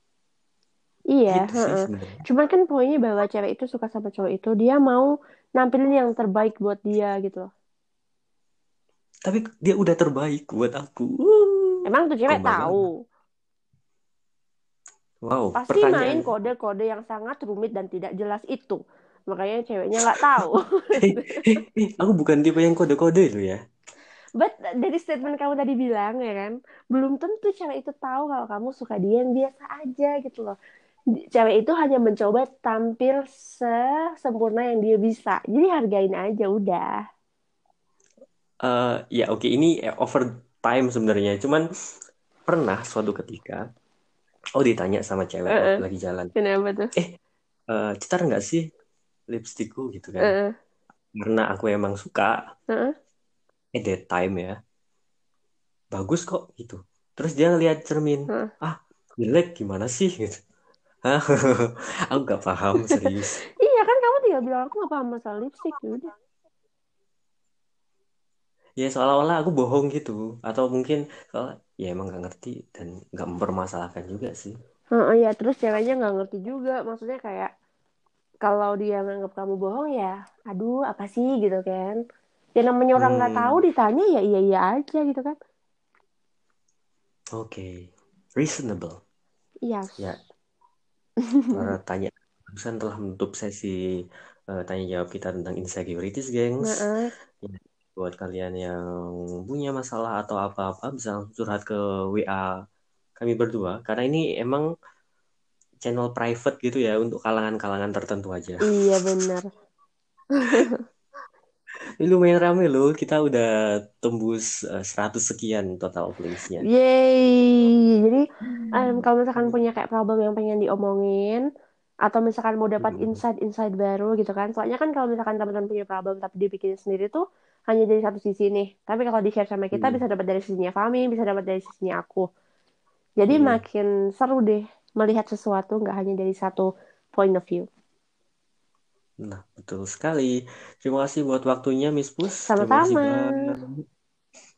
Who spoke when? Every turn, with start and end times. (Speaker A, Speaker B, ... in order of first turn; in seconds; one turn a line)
Speaker A: 1.1-7.5
Speaker B: 1.3-2.2
Speaker B: 9.2-12.8
Speaker A: 11.8-13.0
Speaker B: 15.2-16.3
Speaker A: 15.5-21.6
Speaker B: 20.0-20.4
Speaker B: 21.0-23.6
Speaker A: 24.4-30.6
Speaker A: 31.3-36.9
Speaker B: 38.6-41.6
Speaker B: 42.5-43.6
Speaker B: 44.6-46.3
Speaker A: 45.5-45.8
Speaker A: 46.4-46.9
Speaker B: 47.7-48.6
Speaker B: 49.3-50.3
Speaker A: 50.2-50.5
Speaker B: 51.2-52.4
Speaker B: 53.7-54.5
Speaker B: 55.9-60.4
Speaker B: 61.0-63.4
Speaker A: 63.6-66.1
Speaker B: 68.8-74.5
Speaker A: 74.9-77.5
Speaker A: 78.4-82.0
Speaker A: 82.6-85.3
Speaker B: 83.0-83.6
Speaker B: 87.3-87.7
Speaker B: 88.4-89.0
Speaker A: 89.7-90.0
Speaker A: 91.3-91.7
Speaker B: 91.5-93.7
Speaker B: 94.5-96.8
Speaker A: 96.6-97.1
Speaker B: 97.4-98.8
Speaker B: 99.5-102.5
Speaker B: 103.2-104.7
Speaker B: 105.8-108.8
Speaker A: 108.7-109.5
Speaker A: 110.4-110.8
Speaker B: 112.0-113.5
Speaker B: 114.0-116.6
Speaker A: 116.6-118.2
Speaker B: 118.6-119.6
Speaker A: 118.7-121.4
Speaker A: 122.1-132.2
Speaker B: 122.8-123.2
Speaker B: 129.7-130.0
Speaker A: 133.2-137.7
Speaker B: 133.3-133.6
Speaker B: 139.2-143.8
Speaker A: 142.5-143.4